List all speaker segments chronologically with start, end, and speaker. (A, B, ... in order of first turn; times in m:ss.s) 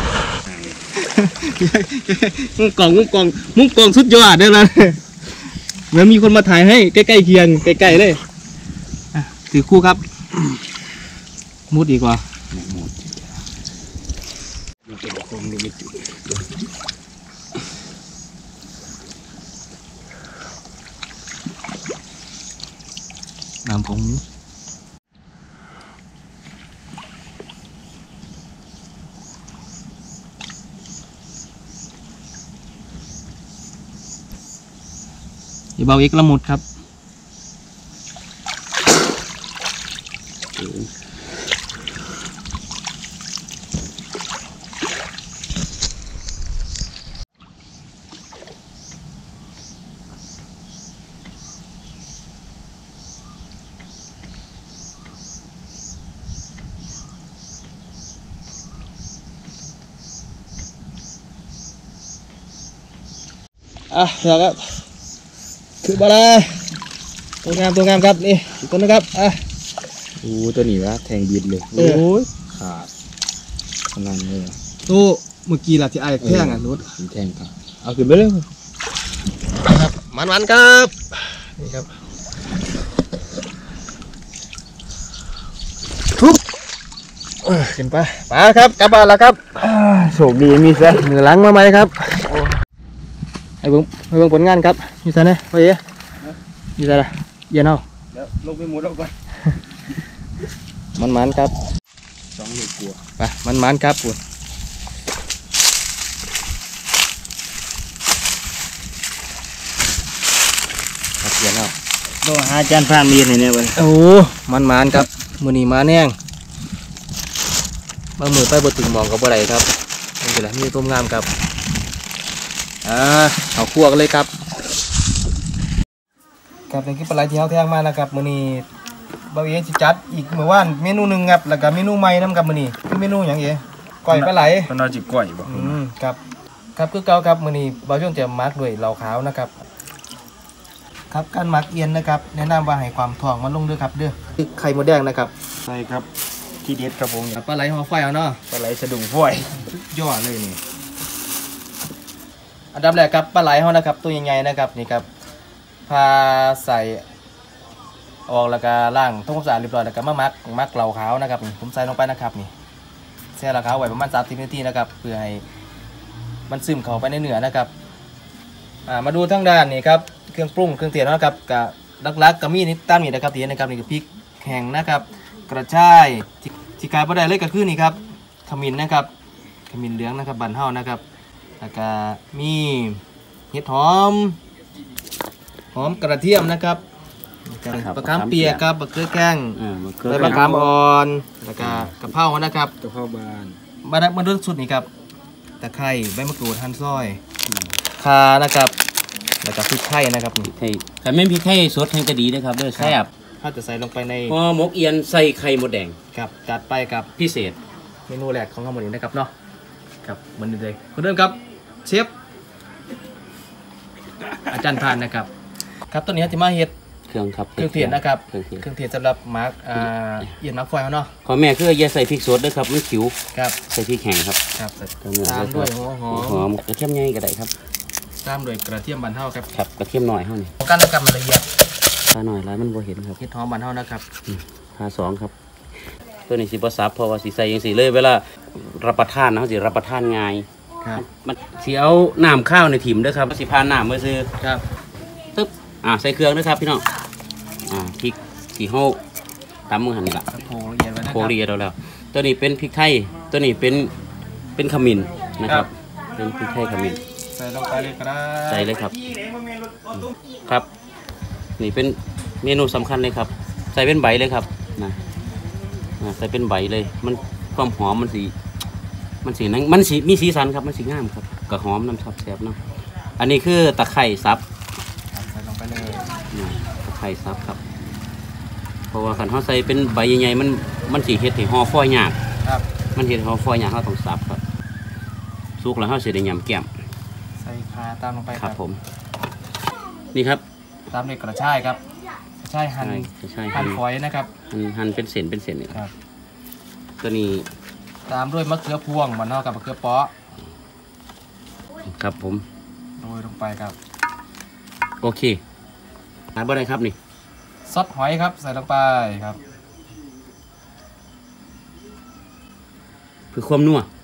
0:01.0-0:05.0 A
0:05.9-0:08.2 A
0:09.1-0:10.0 A
0:11.7-0:12.2 A
0:12.5-0:13.1 B
0:14.9-0:15.9 B
0:23.6-0:24.2 A
0:35.8-0:36.6 A
0:40.6-0:40.9 C
1:03.9-1:04.8 A
1:05.8-1:06.8 A
1:07.4-1:09.4 A
1:10.2-1:12.9 B
1:11.7-1:12.2 A
1:13.9-1:14.5 B
1:14.9-1:16.8 A
1:16.2-1:18.4 B
1:19.7-1:21.9 A
1:27.5-1:29.5 A
1:29.6-1:31.1 B
1:31.0-1:32.3 A
1:33.6-1:35.8 A
1:36.8-1:37.8 A
1:38.1-1:39.1 B
1:41.0-1:41.5 A
1:42.3-1:43.0 B
1:43.2-1:44.2 A
1:51.2-1:51.7 A
1:52.2-1:53.8 B
1:53.8-1:56.2 A
1:58.2-1:59.7 A
2:00.2-2:01.3 A
2:02.8-2:04.3 A
2:06.7-2:08.6 A
2:09.3-2:14.7 A
2:14.1-2:15.8 B
2:15.4-2:16.2 A
2:16.8-2:19.5 A
2:21.1-2:25.3 A
2:25.6-2:26.1 B
2:26.6-2:27.4 B
2:27.4-2:28.4 A
2:28.5-2:29.5 B
2:29.9-2:30.6 A
2:32.7-2:35.0 A
2:35.9-2:37.0 A
2:38.3-2:42.5 A
2:43.4-2:45.4 A
2:46.5-2:47.7 A
2:48.9-2:59.1 A
2:59.7-3:01.0 A
3:01.6-3:03.0 A
3:03.5-3:04.4 A
3:05.7-3:06.8 A
3:07.5-3:12.7 A
3:07.7-3:08.6 C
3:09.6-3:10.4 C
3:10.1-3:10.8 B
3:11.6-3:11.9 C
3:12.8-3:13.6 B
3:13.8-3:14.9 A
3:15.6-3:17.2 A
3:17.5-3:17.8 C
3:17.9-3:18.7 A
3:19.4-3:20.5 A
3:20.5-3:23.1 C
3:22.7-3:24.3 A
3:24.3-3:26.0 C
3:26.1-3:27.1 A
3:27.2-3:27.6 C
3:28.1-3:29.3 A
3:30.0-3:32.1 A
3:34.5-3:35.3 A
3:35.9-3:36.7 A
3:37.1-3:38.6 C
3:37.6-3:41.1 A
3:41.2-3:43.1 C
3:43.7-3:44.4 C
3:44.6-3:46.5 A
3:45.0-3:47.5 C
3:48.2-3:49.5 A
3:49.5-3:50.5 C
3:50.6-3:51.4 A
3:52.1-3:53.2 C
3:53.2-3:54.0 A
3:54.3-3:55.3 C
3:56.3-4:04.3 C
4:05.3-4:06.8 C
4:07.7-4:09.0 C
4:09.7-4:10.2 C
4:10.3-4:11.4 A
4:11.1-4:13.9 C
4:14.6-4:17.0 C
4:17.3-4:18.7 A
4:18.5-4:19.0 C
4:18.9-4:20.1 B
4:20.0-4:20.7 C
4:21.6-4:25.0 C
4:26.0-4:28.3 C
4:29.2-4:32.6 C
4:33.2-4:34.4 C
4:35.1-4:36.2 A
4:36.3-4:37.6 C
4:38.9-4:42.2 C
4:43.0-4:44.4 C
4:45.6-4:46.7 C
4:47.4-4:48.6 A
4:48.4-4:48.8 C
4:50.1-4:50.4 C
4:50.9-4:51.8 A
4:52.4-4:54.3 A
4:52.8-4:53.8 C
4:54.5-4:55.8 C
4:57.0-4:57.5 C
4:58.1-5:00.1 A
5:01.9-5:02.4 C
5:03.0-5:03.8 A
5:05.0-5:05.4 C
5:06.4-5:07.0 C
5:07.7-5:09.4 A
5:13.3-5:13.9 C